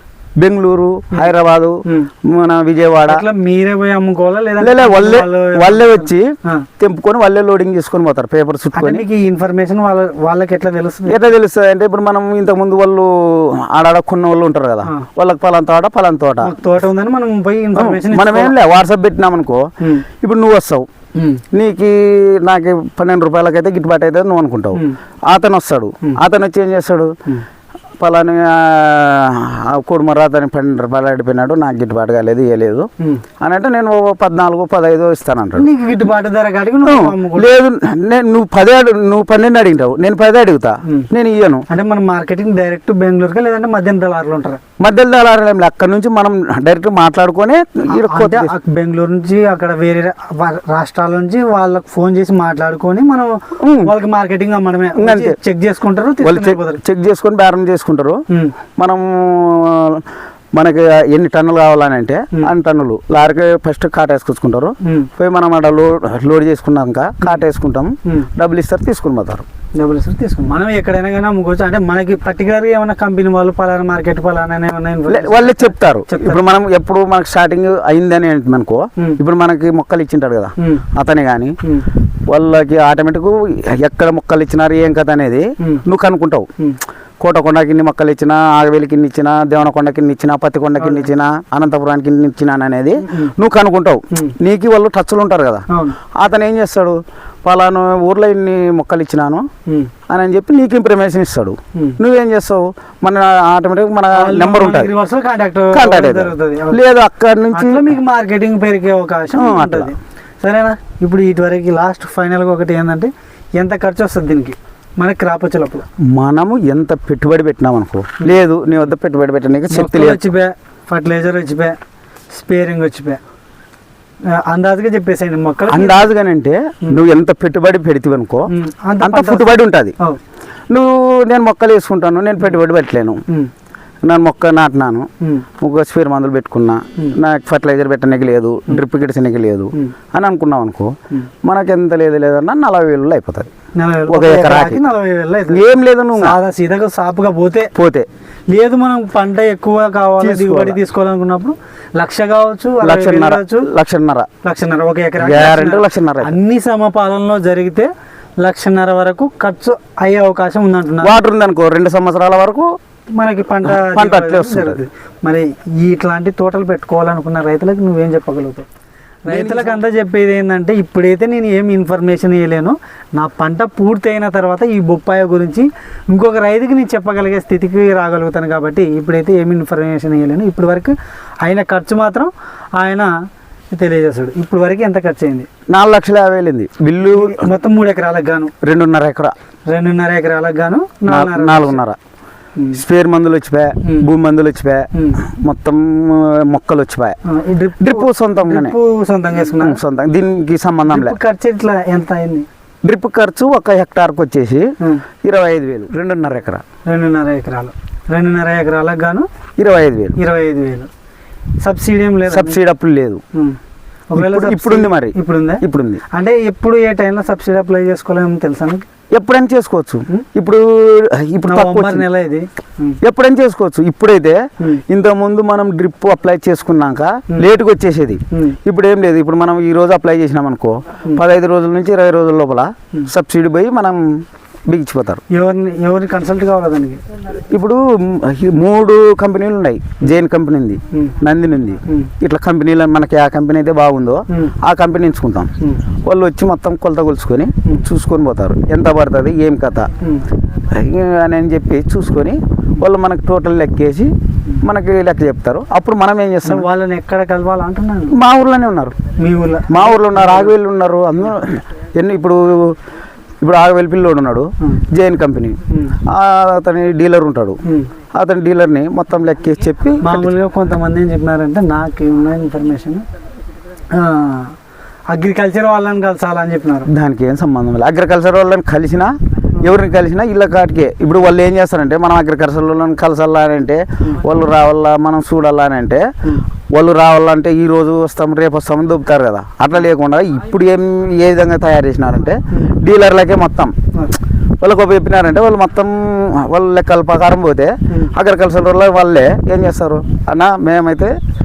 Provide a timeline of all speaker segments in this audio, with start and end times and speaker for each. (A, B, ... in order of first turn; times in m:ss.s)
0:00.4-0:03.2 A
0:01.9-0:02.1 B
0:03.0-0:06.7 B
0:04.6-0:09.0 A
0:08.8-0:11.2 B
0:11.1-0:16.5 A
0:16.4-0:18.5 B
0:17.8-0:19.7 A
0:19.8-0:20.0 B
0:20.2-0:20.9 A
0:21.2-0:21.4 B
0:21.5-0:27.1 A
0:28.0-0:32.9 A
0:33.0-0:33.2 B
0:33.4-0:35.7 A
0:35.6-0:37.5 B
0:36.8-0:41.6 A
0:41.7-0:44.6 B
0:44.8-0:48.5 A
0:47.9-0:56.8 B
0:53.6-0:53.9 A
0:55.0-0:55.4 A
0:56.2-0:58.2 A
0:58.3-0:58.6 B
0:58.8-1:00.0 A
1:00.6-1:09.4 A
1:04.8-1:05.1 B
1:09.8-1:16.4 B
1:15.1-1:21.6 A
1:20.6-1:20.8 B
1:22.3-1:26.5 A
1:27.2-1:35.7 A
1:30.8-1:31.1 B
1:33.0-1:33.3 B
1:35.7-1:36.0 B
1:36.2-1:39.5 A
1:40.1-1:44.9 A
1:44.1-1:46.8 B
1:45.7-1:47.9 A
1:47.5-1:55.8 B
1:49.3-1:49.9 A
1:56.1-2:00.2 A
1:59.7-2:01.8 B
2:02.3-2:03.2 B
2:04.3-2:06.1 B
2:05.7-2:08.5 A
2:08.5-2:10.2 B
2:09.0-2:10.0 A
2:10.7-2:13.2 A
2:14.0-2:15.1 A
2:15.6-2:23.5 A
2:23.8-2:25.6 B
2:24.1-2:24.8 A
2:25.5-2:26.4 A
2:26.2-2:27.7 B
2:27.8-2:28.1 A
2:28.5-2:33.7 B
2:30.2-2:30.8 A
2:32.8-2:34.3 A
2:34.4-2:37.9 B
2:35.2-2:36.4 A
2:38.4-2:41.2 B
2:41.0-2:42.7 A
2:43.2-2:48.7 B
2:43.6-2:44.8 A
2:49.3-3:03.1 B
2:49.3-2:49.8 A
3:03.7-3:05.5 B
3:05.7-3:07.5 A
3:07.1-3:08.5 B
3:08.6-3:09.3 A
3:09.7-3:11.8 B
3:11.1-3:12.0 A
3:12.8-3:17.2 A
3:14.9-3:15.2 B
3:17.3-3:19.8 B
3:17.8-3:18.8 A
3:19.4-3:21.2 A
3:20.9-3:22.5 B
3:22.8-3:24.7 A
3:25.2-3:26.6 A
3:26.9-3:29.3 B
3:29.6-3:30.2 A
3:30.2-3:30.9 B
3:31.6-3:32.6 B
3:32.3-3:33.2 A
3:33.3-3:33.6 B
3:34.1-3:38.9 B
3:34.2-3:36.0 A
3:39.1-3:42.1 A
3:41.5-3:43.0 B
3:43.0-3:54.0 A
3:48.3-3:48.6 B
3:54.7-3:55.2 A
3:55.3-3:57.0 B
3:57.5-4:05.5 A
4:06.0-4:09.9 A
4:10.7-4:14.1 A
4:14.6-4:16.6 A
4:16.4-4:18.2 B
4:18.1-4:19.0 A
4:19.2-4:20.5 B
4:19.7-4:22.8 A
4:23.4-4:27.6 A
4:25.7-4:26.0 B
4:27.6-4:27.9 B
4:28.2-4:30.3 A
4:30.0-4:33.0 B
4:33.9-4:34.6 B
4:35.1-4:36.9 B
4:36.9-4:46.1 A
4:46.7-4:53.7 A
4:54.6-5:01.1 A